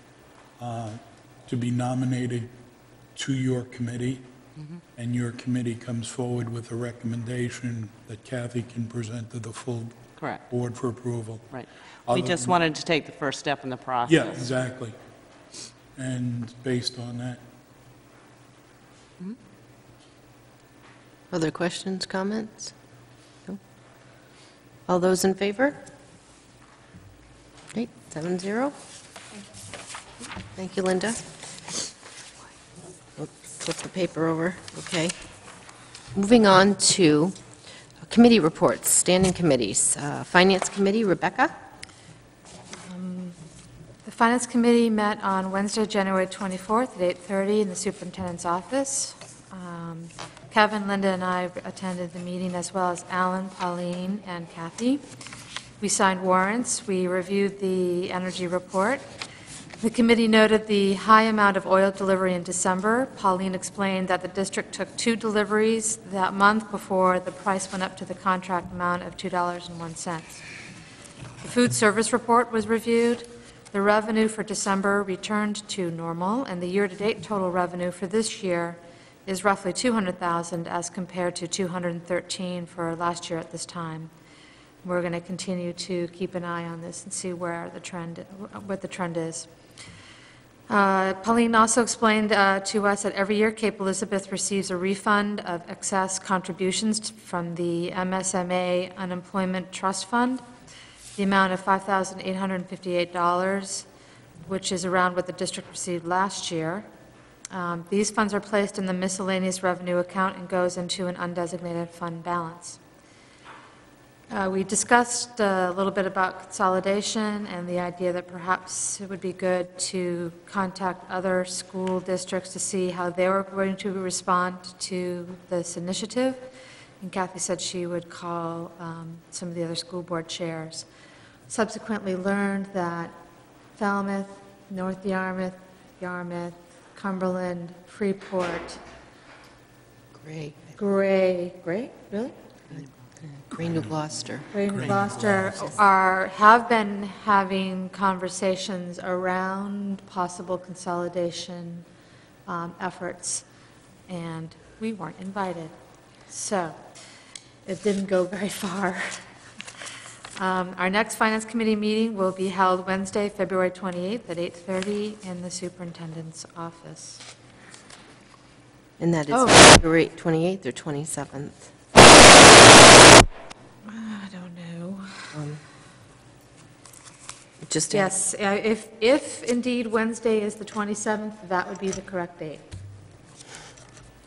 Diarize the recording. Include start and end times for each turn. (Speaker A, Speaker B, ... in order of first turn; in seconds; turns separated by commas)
Speaker A: 0.6-2.5, Speaker A: 3.1-4.2, Speaker A: 5.0-10.0, Speaker B: 10.2-10.4, Speaker A: 10.5-11.4, Speaker B: 11.5-14.5, Speaker A: 12.1-12.6, Speaker A: 14.1-14.9, Speaker A: 15.9-17.4, Speaker C: 21.3-22.7, Speaker C: 24.9-25.8, Speaker C: 27.7-28.7, Speaker C: 30.6-31.2, Speaker C: 33.2-35.1, Speaker C: 36.1-37.4, Speaker C: 38.1-41.5, Speaker D: 42.9-43.4, Speaker D: 44.0-55.0, Speaker D: 55.8-59.0, Speaker D: 59.8-70.4, Speaker D: 71.4-84.1, Speaker D: 84.8-89.5, Speaker D: 90.7-100.4, Speaker D: 101.2-103.8, Speaker D: 104.5-106.9, Speaker D: 107.5-112.8, Speaker D: 114.3-126.4, Speaker D: 127.0-130.8, Speaker D: 131.5-133.1, Speaker D: 133.8-138.8, Speaker C: 140.1-140.7, Speaker D: 140.8-142.3, Speaker C: 143.5-145.0, Speaker D: 144.5-151.8, Speaker A: 145.0-145.4, Speaker D: 152.4-153.4, Speaker D: 154.1-155.7, Speaker D: 156.3-156.8, Speaker D: 157.7-159.2, Speaker D: 160.4-167.2, Speaker C: 169.0-171.7, Speaker D: 169.3-169.7, Speaker D: 173.8-175.1, Speaker C: 175.3-175.6, Speaker C: 177.6-178.1, Speaker D: 177.9-182.6